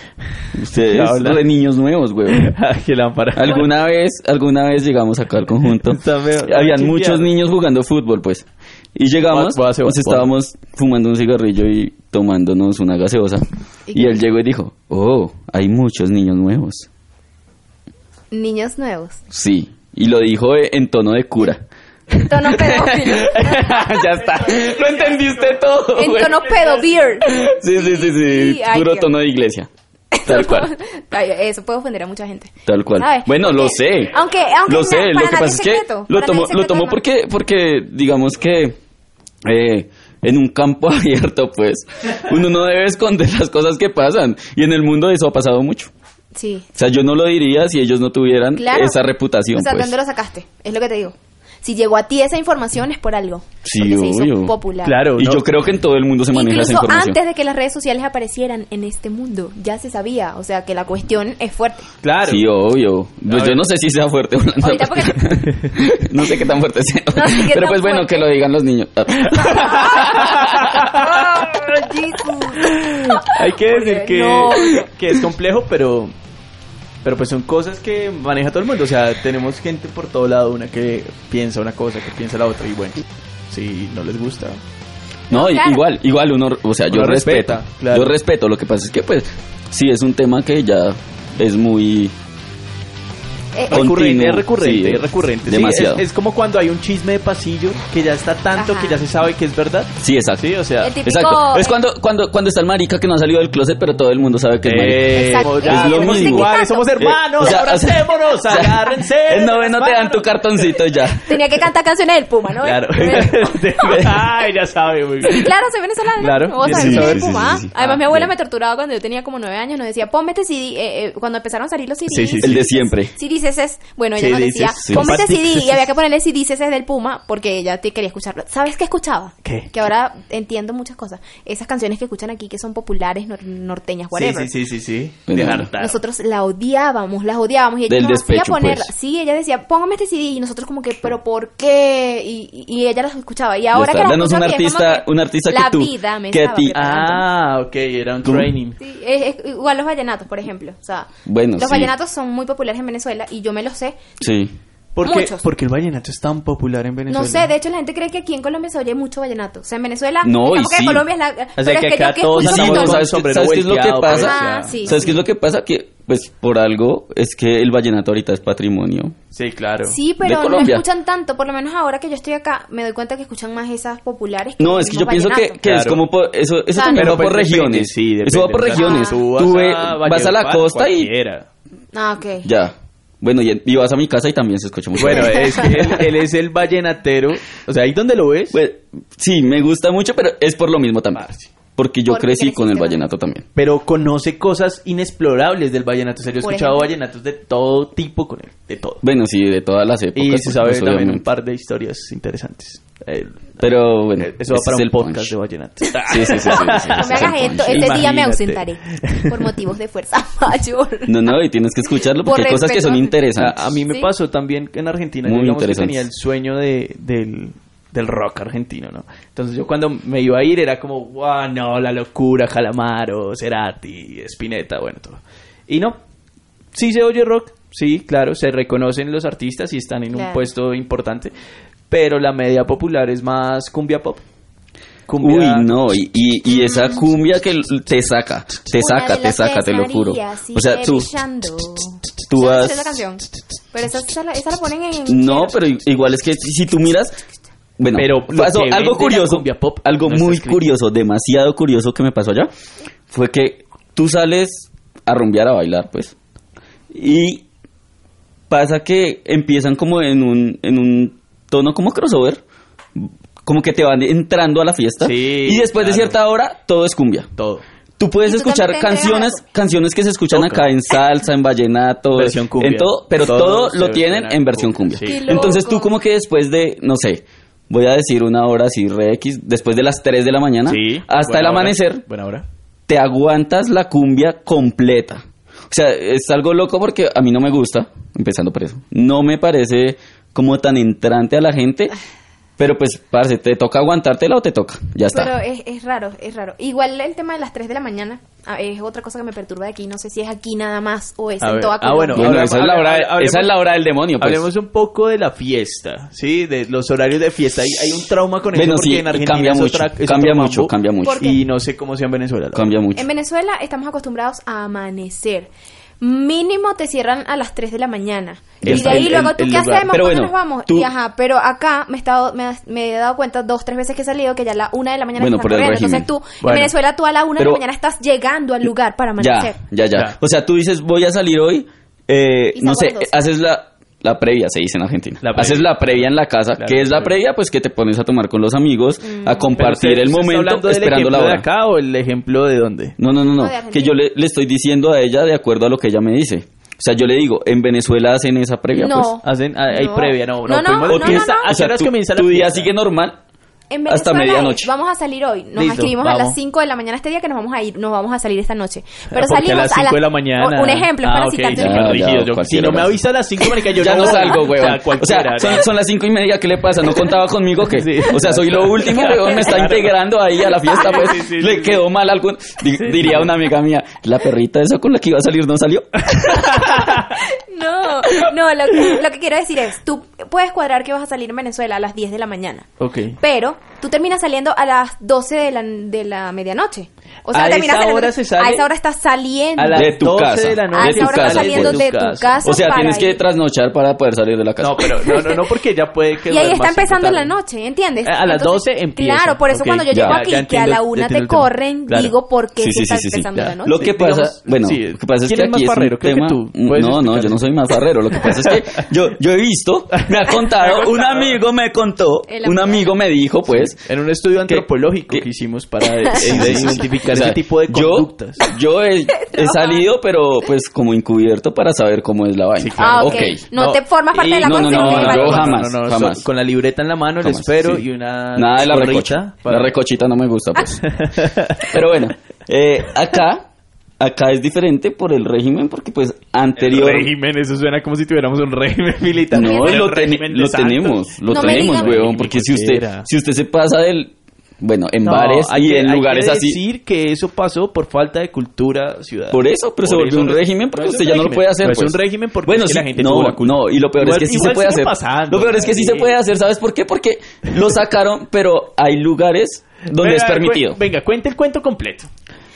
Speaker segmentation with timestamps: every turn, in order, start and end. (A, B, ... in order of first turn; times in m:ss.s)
0:00.5-0:02.6 A
0:00.7-0:01.4 B
0:02.3-0:03.7 B
0:03.4-0:16.9 A
0:05.8-0:07.3 B
0:09.3-0:10.3 B
0:13.9-0:14.2 C
0:18.3-0:19.2 C
0:19.3-0:21.6 A
0:22.1-0:24.1 C
0:22.3-0:26.6 A
0:25.9-0:29.1 C
0:27.2-0:29.7 A
0:30.1-0:37.0 C
0:30.2-0:30.7 A
0:32.6-0:38.8 A
0:39.4-0:45.9 A
0:46.3-0:46.6 C
0:46.7-0:49.9 A
0:48.6-0:49.0 C
0:49.5-0:55.0 C
0:53.6-0:54.5 A
0:54.8-0:55.4 B
0:55.1-0:57.2 A
0:56.3-1:01.9 C
1:02.0-1:02.4 B
1:02.2-1:10.9 A
1:03.3-1:03.6 B
1:04.6-1:05.4 C
1:07.1-1:08.3 C
1:09.3-1:11.7 B
1:09.4-1:14.9 C
1:12.5-1:16.1 B
1:17.0-1:24.6 B
1:25.3-1:25.8 C
1:25.3-1:32.1 A
1:26.9-1:28.2 B
1:33.6-1:33.8 C
1:33.7-1:41.0 B
1:33.7-1:36.0 A
1:38.6-1:39.0 C
1:40.0-1:40.5 A
1:40.8-1:41.8 C
1:41.0-1:51.4 A
1:44.6-1:50.7 B
1:45.1-1:46.9 C
1:51.2-1:53.6 C
1:52.6-1:55.5 B
1:53.9-1:54.3 A
1:55.3-2:14.5 C
1:56.2-1:58.3 B
1:56.6-1:57.7 A
2:02.1-2:02.7 B
2:02.4-2:03.1 A
2:04.2-2:05.8 B
2:04.9-2:05.2 A
2:09.4-2:09.7 B
2:14.1-2:16.0 B
2:15.3-2:15.7 A
2:15.8-2:27.3 C
2:17.9-2:18.9 A
2:23.7-2:26.8 A
2:26.7-2:28.8 B
2:28.2-2:28.5 A
2:28.8-2:34.2 C
2:31.3-2:31.9 A
2:34.2-2:34.6 A
2:35.0-2:37.5 B
2:35.0-2:35.4 C
2:37.1-2:43.1 C
2:40.2-2:41.0 A
2:41.6-2:45.2 B
2:42.4-2:49.1 A
2:44.1-2:45.2 C
2:49.3-2:50.0 B
2:49.9-2:55.6 C
2:50.2-2:50.8 A
2:54.6-3:01.1 A
2:55.6-2:56.0 B
2:56.7-2:57.1 C
2:56.9-3:01.4 B
2:58.8-2:59.2 C
3:01.9-3:02.5 C
3:02.4-3:06.0 A
3:05.0-3:08.6 B
3:08.5-3:13.4 A
3:11.2-3:11.5 B
3:12.1-3:13.0 C
3:13.6-3:19.0 B
3:16.4-3:16.9 C
3:19.0-3:21.2 A
3:20.1-3:29.4 B
3:23.6-3:25.3 A
3:25.9-3:28.4 A
3:26.4-3:31.3 C
3:31.1-3:33.6 A
3:32.2-3:33.1 C
3:33.4-3:46.0 B
3:35.2-3:36.0 A
3:46.7-3:51.3 B
3:50.1-3:50.4 C
3:51.9-3:54.2 B
3:55.1-3:55.7 B
3:55.2-4:01.1 A
3:56.5-3:57.0 C
3:58.8-4:05.8 C
4:02.3-4:03.0 A
4:05.1-4:07.2 A
4:07.8-4:12.5 A
4:07.9-4:10.7 B
4:13.1-4:16.1 A
4:16.9-4:17.4 A
4:18.5-4:22.4 A
4:22.9-4:27.3 A
4:25.0-4:26.2 B
4:27.4-4:27.6 B
4:28.0-4:42.0 A
4:28.3-4:29.4 C
4:30.3-4:30.7 B
4:32.1-4:35.5 B
4:35.0-4:35.9 C
4:40.6-4:42.4 B
4:42.9-4:51.9 A
4:52.6-4:55.3 A
4:55.1-5:02.3 C
5:01.4-5:03.6 B
5:02.1-5:04.4 A
5:04.2-5:12.7 B
5:08.5-5:11.3 A
5:11.0-5:11.4 C
5:12.5-5:13.1 A
5:12.9-5:29.6 C
5:18.6-5:19.3 A
5:18.6-5:19.9 B
5:19.9-5:20.9 A
5:25.2-5:26.1 A
5:26.4-5:26.7 B
5:29.2-5:41.4 A
5:32.6-5:33.2 C
5:35.2-5:35.8 B
5:36.6-5:37.1 B
5:39.0-5:39.5 C
5:39.6-5:43.0 B
5:43.0-5:49.1 A
5:43.4-5:44.0 C
5:48.7-5:51.5 C
5:49.2-5:52.7 B
5:50.8-5:53.2 A
5:53.7-6:02.0 C
5:53.9-5:54.7 A
5:55.6-5:56.4 B
5:59.1-6:05.6 B
6:01.5-6:03.0 A
6:03.7-6:16.9 A
6:07.6-6:09.9 B
6:10.6-6:11.1 C
6:10.7-6:11.8 B
6:12.8-6:13.3 B
6:16.4-6:22.6 C
6:16.6-6:17.0 B
6:22.8-6:23.2 B
6:23.2-6:30.0 C
6:27.3-6:28.6 B
6:29.6-6:32.7 B
6:29.7-6:31.8 A
6:30.7-6:33.2 C
6:32.4-6:35.0 A
6:34.6-6:37.3 B
6:35.1-6:35.4 C
6:36.3-6:43.8 C
6:38.0-6:42.1 B
6:39.9-6:40.2 A
6:42.6-6:53.8 A
6:43.4-6:47.4 B
6:48.2-6:48.8 B
6:50.0-6:51.4 B
6:52.3-6:52.9 C
6:53.5-6:58.4 B
6:54.5-6:55.2 A
6:56.2-7:03.4 A
6:59.2-6:59.9 C
7:02.6-7:09.7 B
7:02.8-7:05.5 C
7:04.4-7:06.2 A
7:07.2-7:10.9 A
7:10.8-7:11.8 B
7:11.6-7:13.4 A
7:14.0-7:17.1 A
7:16.6-7:23.1 B
7:19.3-7:26.6 A
7:19.3-7:19.8 C
7:21.3-7:22.0 C
7:25.0-7:36.1 B
7:29.3-7:40.8 A
7:39.9-7:42.1 B